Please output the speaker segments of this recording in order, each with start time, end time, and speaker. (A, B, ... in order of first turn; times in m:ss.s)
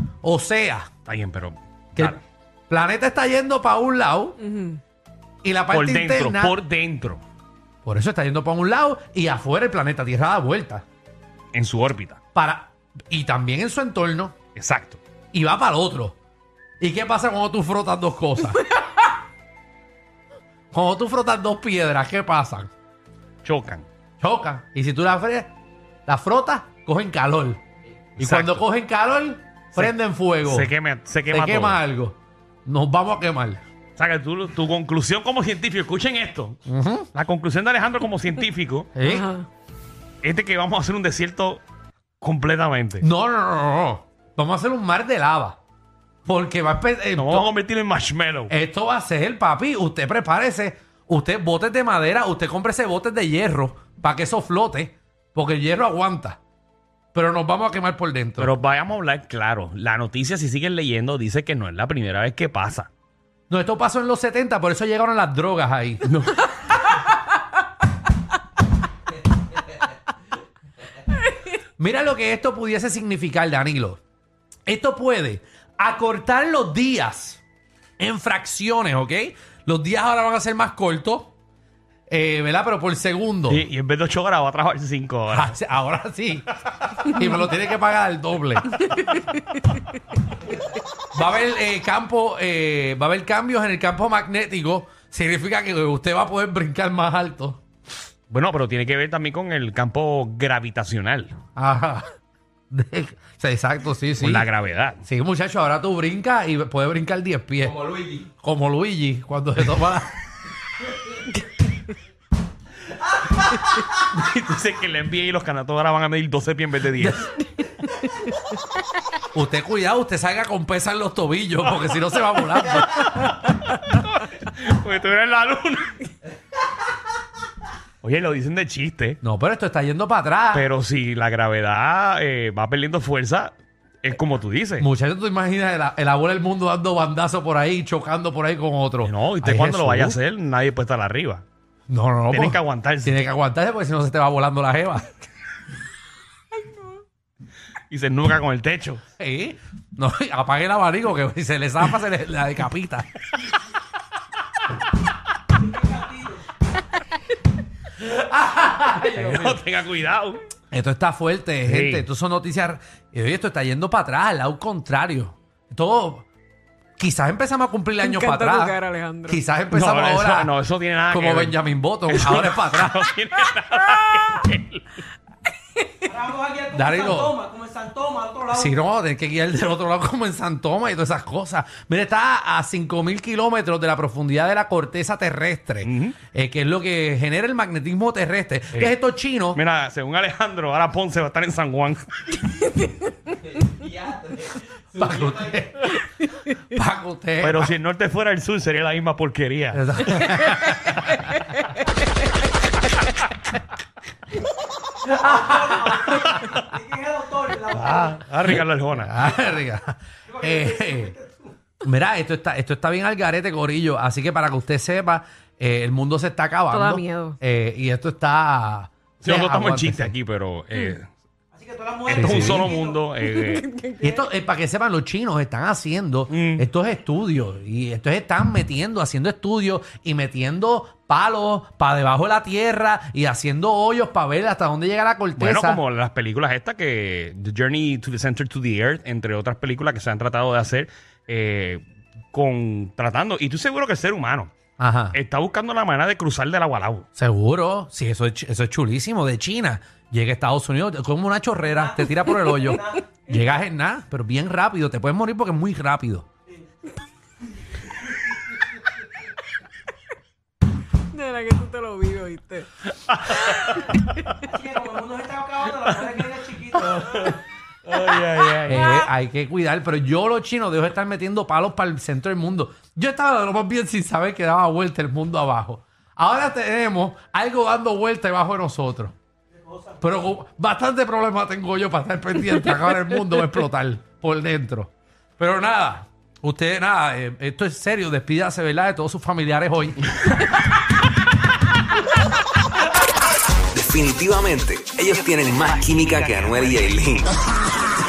0:00.2-0:00.9 A
0:01.0-0:02.2 B
0:02.7-0:04.4 A
0:04.4-0:04.8 C
0:05.4-0:06.6 A
0:05.7-0:07.2 B
0:07.8-0:10.8 A
0:11.5-0:12.2 B
0:12.3-0:14.3 A
0:14.6-0:15.0 B
0:15.3-0:16.2 A
0:16.8-0:18.7 A
0:20.7-0:22.7 A
0:23.4-0:23.9 B
0:24.2-0:25.5 A
0:26.1-0:27.6 A
0:28.2-0:28.6 B
0:28.2-0:30.7 A
0:30.4-0:31.8 B
0:31.3-0:33.6 A
0:34.0-0:36.6 B
0:36.7-0:37.1 A
0:37.1-0:38.9 B
0:38.9-0:39.3 A
0:39.0-0:39.5 C
0:40.2-0:41.6 B
0:42.2-0:43.0 B
0:43.0-0:45.6 A
0:46.2-0:47.5 A
0:47.2-0:48.5 B
0:48.5-0:56.4 A
0:57.1-0:58.5 A
0:58.4-1:02.9 B
1:03.5-1:06.0 A
1:06.0-1:06.5 B
1:11.8-1:14.0 A
1:14.6-1:17.4 A
1:18.0-1:21.3 A
1:22.1-1:23.6 A
1:23.5-1:25.5 B
1:25.3-1:28.9 A
1:31.1-1:37.6 A
1:38.3-1:41.3 B
1:41.6-1:42.0 A
1:42.7-1:44.5 A
1:44.2-1:45.0 B
1:45.0-1:50.1 A
1:53.4-1:57.3 B
1:59.3-2:03.1 A
2:02.7-2:05.9 B
2:08.0-2:09.2 B
2:09.2-2:10.7 A
2:10.5-2:14.9 B
2:14.8-2:20.2 A
2:19.0-2:21.4 B
2:21.9-2:25.2 A
2:22.3-2:23.2 B
2:27.9-2:29.0 B
2:29.2-2:33.1 A
2:35.7-2:36.3 D
2:38.0-2:39.6 A
2:39.1-2:40.4 B
2:40.7-2:46.2 A
2:41.6-2:42.0 B
2:47.0-2:50.5 A
2:48.0-2:49.4 C
2:49.7-2:55.0 B
2:51.1-2:53.1 A
2:56.0-2:58.7 D
2:56.7-2:57.4 A
2:58.5-3:09.6 A
3:05.8-3:06.2 B
3:09.5-3:12.1 B
3:14.9-3:17.7 A
3:17.4-3:20.3 B
3:19.7-3:21.2 A
3:25.1-3:28.1 D
3:26.1-3:26.6 B
3:27.7-3:29.3 B
3:29.0-3:31.1 A
3:30.3-3:31.2 D
3:31.8-3:40.1 A
3:36.7-3:37.4 C
3:39.2-3:41.1 B
3:41.6-3:43.0 D
3:42.1-3:42.7 A
3:42.1-3:43.7 B
3:43.2-3:44.0 C
3:44.0-3:55.8 A
3:46.3-3:46.6 B
3:55.4-4:04.5 B
4:04.8-4:05.2 A
4:05.1-4:07.1 B
4:07.2-4:16.3 A
4:21.1-4:22.7 C
4:23.1-4:24.0 B
4:23.3-4:23.9 C
4:24.4-4:26.7 D
4:26.7-4:28.9 B
4:28.7-4:39.1 A
4:40.0-4:50.3 A
4:53.7-4:57.4 E